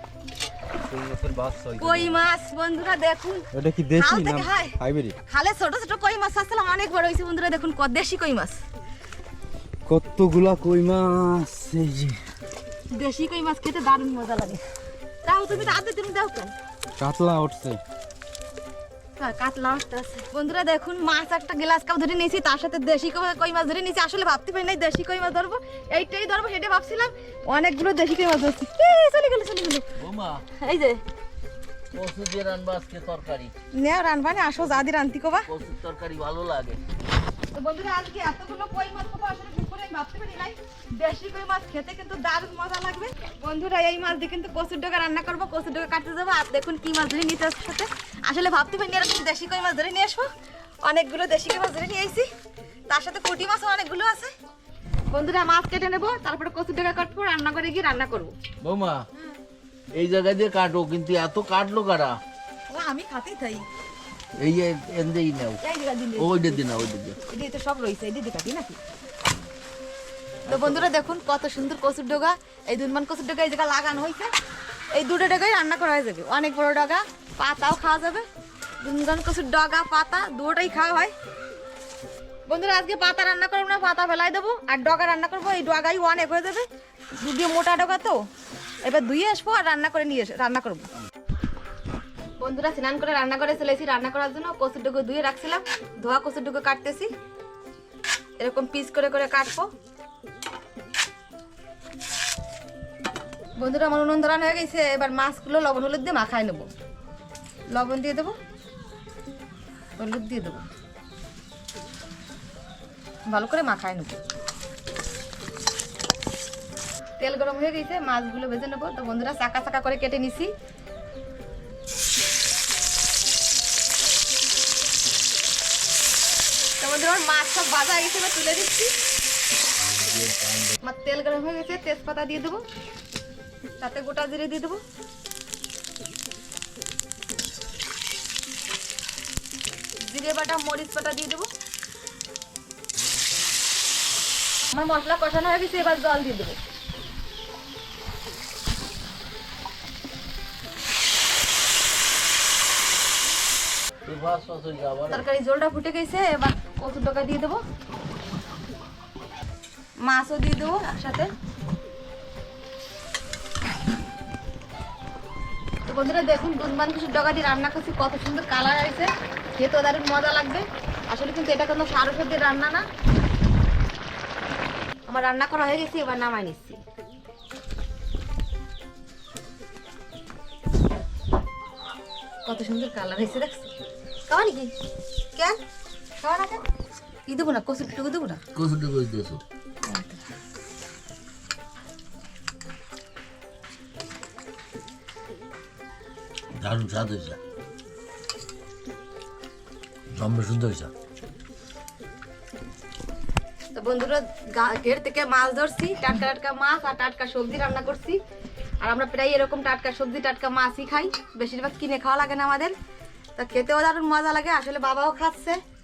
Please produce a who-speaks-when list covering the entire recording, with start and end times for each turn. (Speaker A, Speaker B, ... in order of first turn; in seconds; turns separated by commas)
Speaker A: 0.9-2.2, Speaker B: 1.8-8.6, Speaker A: 3.5-5.2, Speaker A: 9.9-12.2, Speaker B: 12.9-14.6, Speaker B: 15.2-16.5, Speaker A: 17.0-17.8, Speaker B: 19.2-29.9, Speaker C: 30.0-30.4, Speaker B: 30.6-31.0, Speaker C: 31.9-33.5, Speaker B: 33.8-35.5, Speaker C: 35.5-36.8, Speaker B: 37.5-50.3, Speaker B: 50.8-52.3, Speaker B: 52.9-54.3, Speaker B: 55.1-58.3, Speaker C: 58.6-59.0, Speaker C: 60.0-62.1, Speaker B: 62.7-63.7, Speaker C: 64.4-65.6, Speaker B: 65.6-66.6, Speaker C: 66.2-67.2, Speaker B: 67.3-68.8, Speaker C: 70.5-70.9, Speaker B: 70.5-74.3, Speaker B: 74.9-78.3, Speaker B: 78.8-81.1, Speaker B: 82.5-86.7, Speaker B: 87.2-88.2, Speaker B: 88.8-90.9, Speaker B: 92.4-97.1, Speaker B: 98.4-99.7, Speaker B: 103.6-106.7, Speaker B: 107.7-108.3, Speaker B: 110.0-110.7, Speaker B: 113.3-114.1, Speaker B: 117.2-120.5, Speaker B: 126.8-128.9, Speaker C: 129.8-130.8, Speaker B: 130.8-132.6, Speaker B: 133.8-134.8, Speaker B: 140.1-141.5, Speaker B: 144.7-146.6, Speaker C: 154.1-155.2, Speaker B: 155.1-157.6, Speaker B: 160.0-161.3, Speaker B: 165.9-172.8, Speaker B: 175.1-176.8, Speaker B: 182.4-183.7, Speaker B: 184.3-184.7, Speaker B: 186.2-186.6, Speaker B: 187.3-188.4, Speaker C: 188.6-189.4, Speaker B: 189.9-190.2, Speaker C: 196.6-197.4, Speaker C: 200.1-200.9, Speaker B: 203.7-208.2, Speaker B: 208.8-212.8, Speaker B: 213.4-215.6